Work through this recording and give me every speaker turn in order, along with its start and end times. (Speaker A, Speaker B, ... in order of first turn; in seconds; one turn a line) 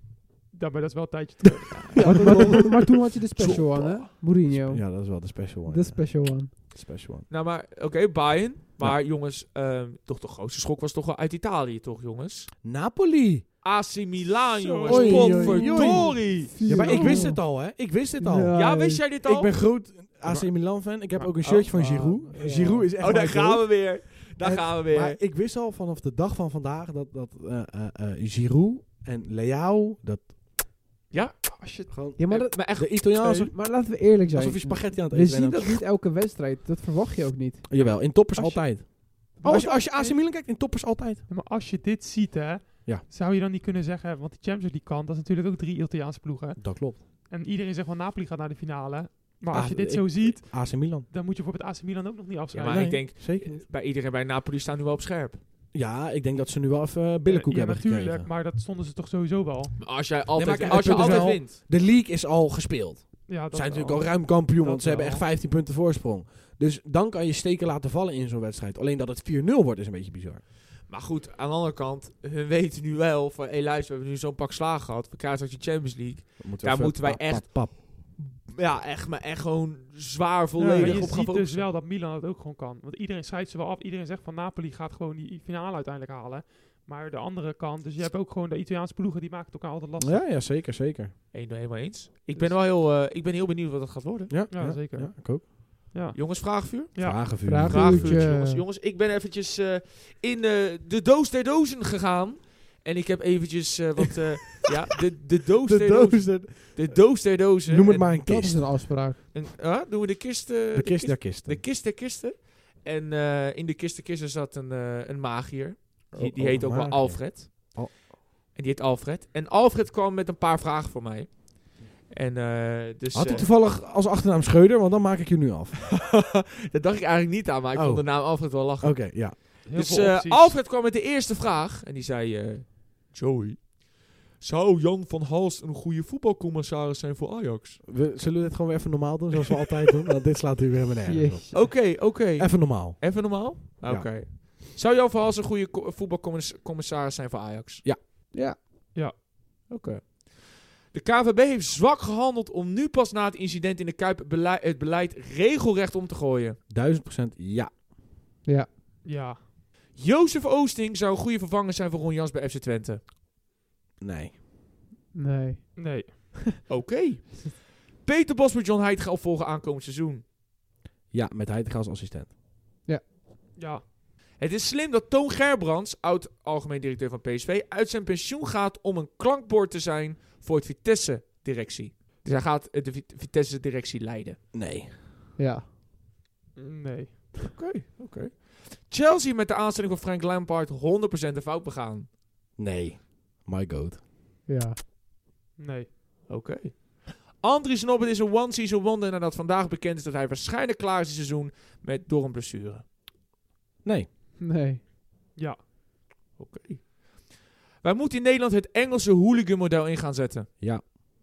Speaker A: 0.5-2.8
Speaker B: 1.8-2.8
Speaker C: 1.9-2.8
Speaker D: 2.0-6.5
Speaker B: 3.4-4.0
Speaker C: 3.4-7.3
Speaker B: 7.3-12.5
Speaker C: 12.6-13.5
Speaker B: 13.6-17.2
Speaker A: 14.6-15.1
Speaker C: 14.8-18.6
Speaker D: 14.8-19.1
Speaker A: 16.8-17.3
Speaker B: 18.5-20.5
Speaker C: 19.2-30.6
Speaker B: 21.4-22.2
Speaker D: 21.7-22.9
Speaker B: 23.0-25.2
Speaker B: 31.1-31.6
Speaker A: 31.5-31.9
Speaker C: 31.9-35.8
Speaker D: 32.2-38.7
Speaker B: 32.2-33.5
Speaker C: 37.7-41.2
Speaker A: 39.4-40.2
Speaker A: 41.3-53.0
Speaker C: 46.6-47.0
Speaker C: 49.5-51.1
Speaker B: 52.5-55.4
Speaker C: 52.6-53.6
Speaker C: 55.7-58.3
Speaker A: 57.3-59.8
Speaker B: 59.8-61.6
Speaker C: 60.3-70.4
Speaker A: 60.7-61.2
Speaker A: 63.3-65.3
Speaker B: 70.9-81.7
Speaker C: 76.4-77.8
Speaker C: 80.6-81.1
Speaker A: 80.8-90.3
Speaker C: 90.0-91.1
Speaker B: 91.3-94.4
Speaker A: 92.3-92.6
Speaker C: 94.3-95.5
Speaker A: 94.5-97.2
Speaker B: 96.1-108.1
Speaker C: 97.0-98.3
Speaker D: 97.4-98.6
Speaker C: 105.6-108.7
Speaker D: 108.2-109.2
Speaker B: 108.9-118.0
Speaker C: 110.7-111.6
Speaker C: 116.1-118.0
Speaker B: 118.5-123.5
Speaker C: 123.1-126.0
Speaker B: 126.0-137.8
Speaker C: 127.7-129.4
Speaker A: 129.7-130.6
Speaker C: 137.8-144.2
Speaker D: 141.1-141.5
Speaker B: 141.5-147.9
Speaker B: 149.7-156.6
Speaker C: 156.7-157.8
Speaker A: 159.0-159.4
Speaker B: 160.0-163.0
Speaker C: 164.0-164.4
Speaker D: 165.1-166.4
Speaker A: 165.8-166.3
Speaker B: 166.7-170.2
Speaker C: 171.1-172.3
Speaker A: 173.6-173.8
Speaker B: 174.4-184.4
Speaker C: 184.5-185.0
Speaker D: 185.4-185.7
Speaker A: 186.6-187.3
Speaker B: 187.5-192.1
Speaker C: 192.6-194.0
Speaker D: 194.5-194.8
Speaker A: 195.6-195.9
Speaker B: 196.3-202.9
Speaker D: 204.4-204.8
Speaker B: 206.4-210.5
Speaker C: 210.6-210.9